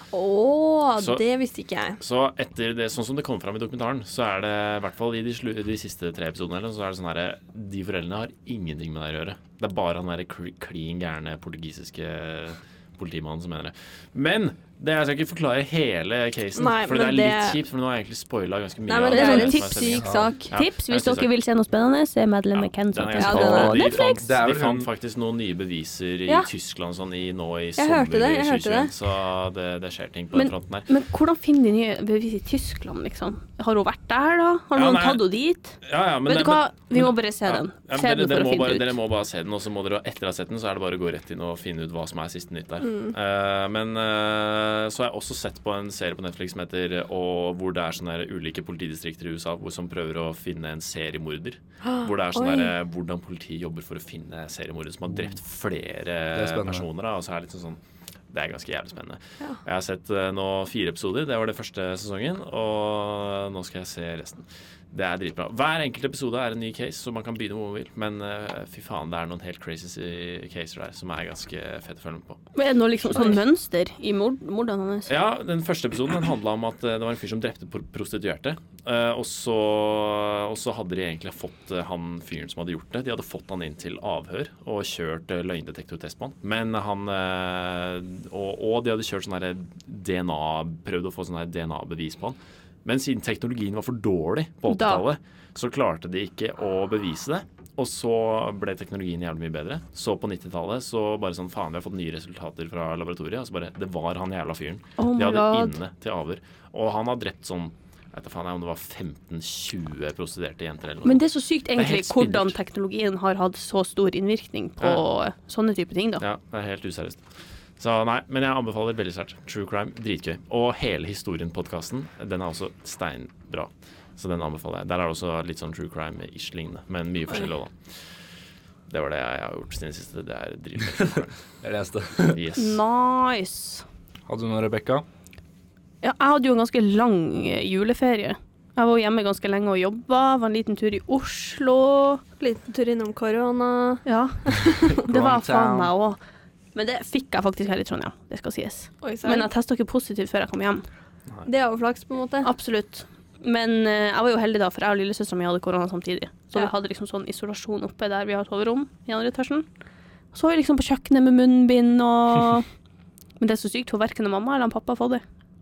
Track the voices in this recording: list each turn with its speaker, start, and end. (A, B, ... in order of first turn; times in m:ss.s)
0:00.1-0:02.0 A
0:01.0-0:01.2 B
0:02.0-0:21.3 B
0:16.5-0:17.6 A
0:18.9-0:20.5 A
0:19.1-0:19.9 C
0:20.0-0:20.3 D
0:20.5-0:24.2 C
0:22.5-0:30.9 B
0:23.2-0:24.0 A
0:24.2-0:24.9 D
0:27.8-0:28.9 A
0:30.3-0:38.9 C
0:34.7-0:35.2 B
0:35.8-0:57.8 B
0:42.8-0:43.1 A
0:51.8-0:52.7 A
0:56.3-0:56.8 D
0:58.3-1:12.4 B
1:12.5-1:15.1 C
1:15.1-1:52.5 B
1:34.7-1:35.0 C
1:45.0-1:45.8 C
1:51.0-1:56.2 C
1:54.8-1:55.0 B
1:56.2-1:57.2 B
1:57.8-2:08.3 B
2:08.9-2:11.4 B
2:11.6-2:12.4 D
2:12.2-2:12.8 B
2:12.6-2:13.8 C
2:14.3-2:15.0 D
2:16.0-2:22.2 C
2:22.4-2:25.0 A
2:24.0-2:26.2 C
2:25.0-2:25.9 D
2:26.7-2:30.8 C
2:29.0-2:29.5 A
2:31.4-2:32.5 A
2:32.4-2:39.6 C
2:40.3-2:42.6 C
2:43.4-2:45.2 C